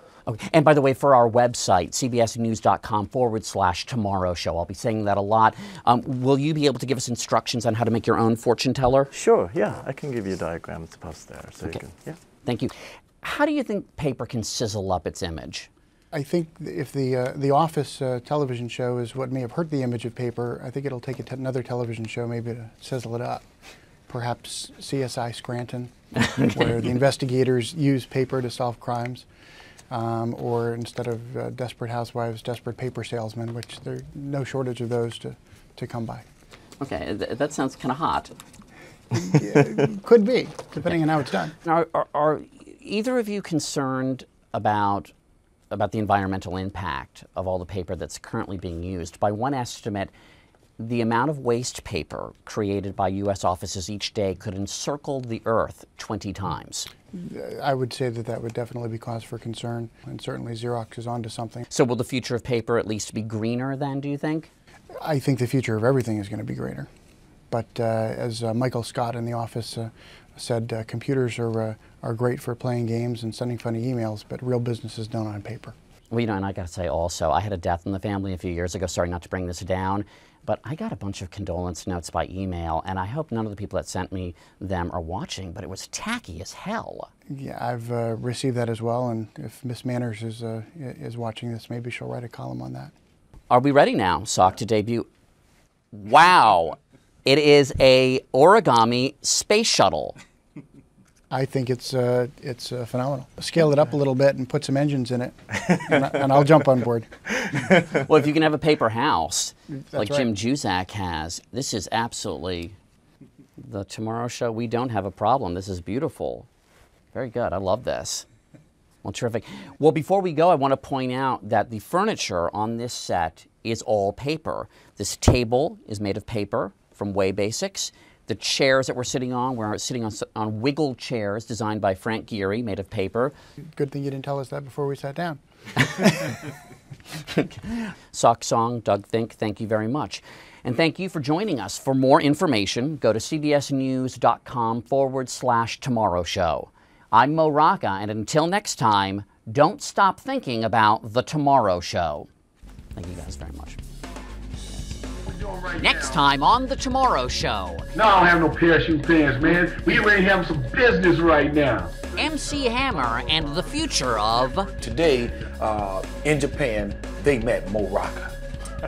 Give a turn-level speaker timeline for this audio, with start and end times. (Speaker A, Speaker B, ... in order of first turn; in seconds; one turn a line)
Speaker A: 0.3-9.1
Speaker B: 9.1-12.2
Speaker A: 12.4-15.7
Speaker C: 16.1-23.4
Speaker C: 24.1-29.3
Speaker C: 29.9-36.2
Speaker A: 36.8-38.3
Speaker C: 39.1-41.5
Speaker A: 41.6-45.1
Speaker A: 45.7-50.1
Speaker A: 50.8-56.9
Speaker C: 57.1-61.7
Speaker A: 61.7-64.5
Speaker C: 65.0-66.9
Speaker C: 67.5-75.8
Speaker A: 76.1-87.1
Speaker C: 87.3-92.9
Speaker A: 93.5-95.1
Speaker A: 95.9-100.2
Speaker C: 101.3-107.2
Speaker A: 107.6-112.8
Speaker C: 109.9-110.3
Speaker A: 113.6-116.5
Speaker A: 117.1-118.3
Speaker A: 119.0-133.3
Speaker C: 133.7-136.4
Speaker A: 137.3-152.3
Speaker A: 153.0-153.8
Speaker A: 154.7-155.0
Speaker D: 155.3-156.2
Speaker A: 155.8-157.9
Speaker D: 157.9-165.5
Speaker A: 162.2-164.7
Speaker E: 164.8-168.2